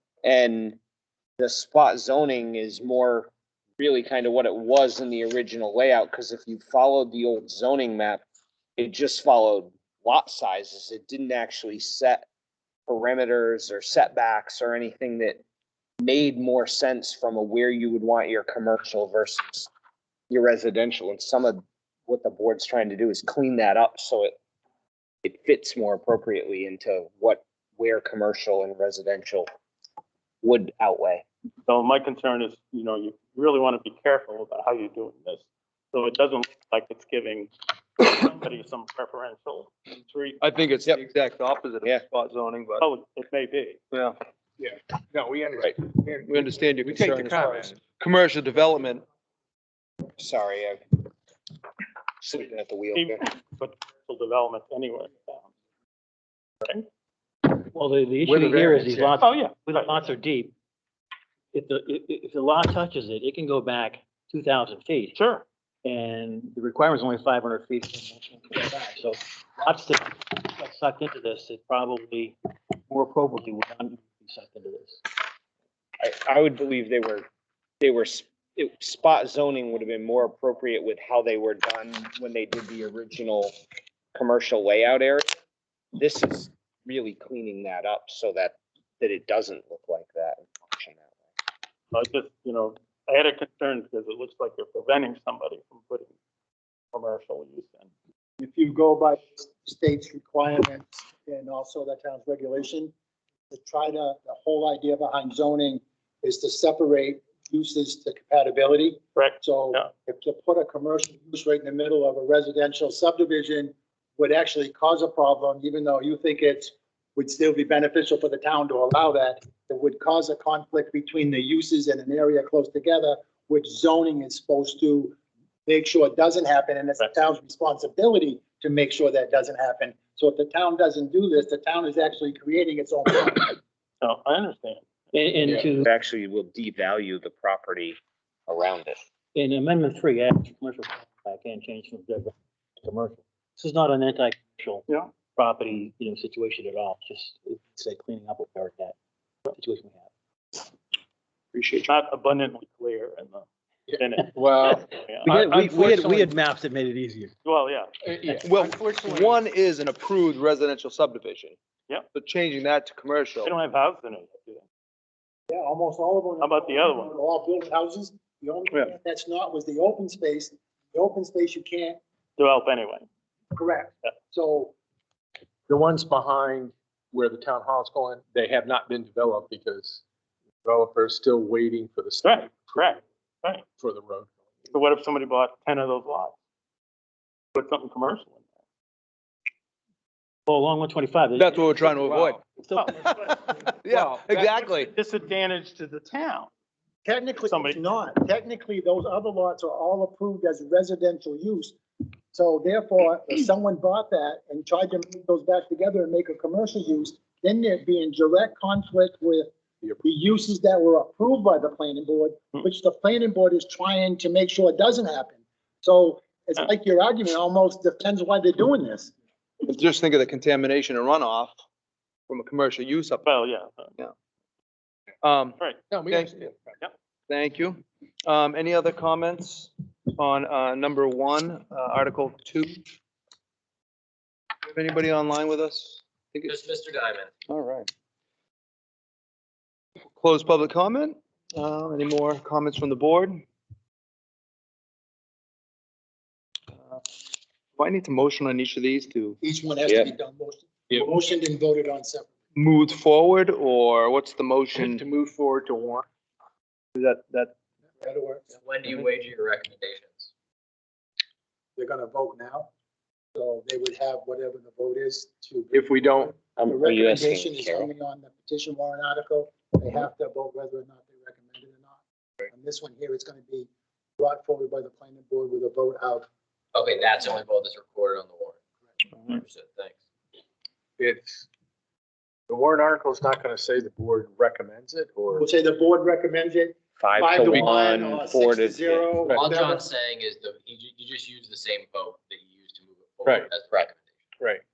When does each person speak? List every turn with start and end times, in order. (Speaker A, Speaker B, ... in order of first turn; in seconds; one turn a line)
Speaker A: 0.2-0.8
Speaker A: 1.4-8.2
Speaker A: 8.8-12.2
Speaker A: 12.9-15.4
Speaker A: 16.0-19.7
Speaker A: 20.3-24.4
Speaker A: 25.2-29.5
Speaker A: 30.4-31.2
Speaker B: 31.7-40.4
Speaker C: 40.4-42.9
Speaker B: 42.8-43.8
Speaker D: 44.6-47.8
Speaker C: 46.3-49.0
Speaker A: 50.2-50.8
Speaker A: 52.2-53.2
Speaker B: 52.9-55.5
Speaker E: 57.5-60.5
Speaker D: 58.3-59.2
Speaker B: 59.2-60.0
Speaker E: 61.5-65.2
Speaker B: 65.1-65.5
Speaker E: 65.8-72.4
Speaker E: 72.9-75.0
Speaker A: 76.0-77.3
Speaker A: 77.8-83.6
Speaker A: 84.1-85.4
Speaker A: 86.0-91.1
Speaker B: 91.9-96.1
Speaker B: 96.9-97.9
Speaker F: 98.4-102.9
Speaker F: 103.5-125.2
Speaker B: 109.2-109.9
Speaker F: 125.7-133.6
Speaker B: 134.0-134.9
Speaker E: 135.1-135.9
Speaker A: 135.8-139.0
Speaker E: 139.3-148.9
Speaker E: 149.5-150.1
Speaker B: 151.5-154.3
Speaker D: 153.9-156.3
Speaker E: 154.7-157.3
Speaker B: 154.9-155.4
Speaker B: 157.4-158.4
Speaker D: 158.0-159.4
Speaker C: 158.4-161.6
Speaker C: 162.1-163.5
Speaker B: 163.4-164.6
Speaker F: 165.5-172.0
Speaker B: 166.4-167.1
Speaker B: 172.4-173.1
Speaker F: 173.5-174.8
Speaker D: 175.7-180.0
Speaker D: 180.6-182.9
Speaker B: 182.2-183.6
Speaker D: 183.8-184.4
Speaker B: 184.7-186.3
Speaker B: 187.6-188.4
Speaker E: 190.5-191.9
Speaker C: 191.3-194.9
Speaker D: 192.0-192.4
Speaker E: 192.5-193.2
Speaker B: 193.9-196.5
Speaker F: 197.1-201.8
Speaker B: 197.4-197.8
Speaker F: 202.3-219.1
Speaker C: 219.6-221.6
Speaker C: 222.3-223.3
Speaker B: 223.2-223.9
Speaker C: 225.2-226.4
Speaker D: 225.9-226.7
Speaker C: 227.3-232.8
Speaker C: 234.7-236.6
Speaker G: 236.5-237.3
Speaker C: 237.5-237.9
Speaker C: 240.2-243.4
Speaker C: 247.8-249.4
Speaker F: 249.4-252.3
Speaker A: 249.9-250.1
Speaker C: 252.6-255.1
Speaker D: 254.7-256.1
Speaker C: 257.0-257.5
Speaker F: 258.0-258.5
Speaker G: 258.6-260.3
Speaker F: 261.8-262.7
Speaker F: 263.4-272.0
Speaker D: 265.7-266.3
Speaker A: 266.6-267.9
Speaker F: 272.5-276.3
Speaker G: 276.7-278.6
Speaker G: 279.3-280.0
Speaker D: 281.0-281.5
Speaker D: 282.5-285.4
Speaker F: 285.3-289.9
Speaker A: 287.0-289.1
Speaker G: 289.4-294.0
Speaker D: 293.2-293.5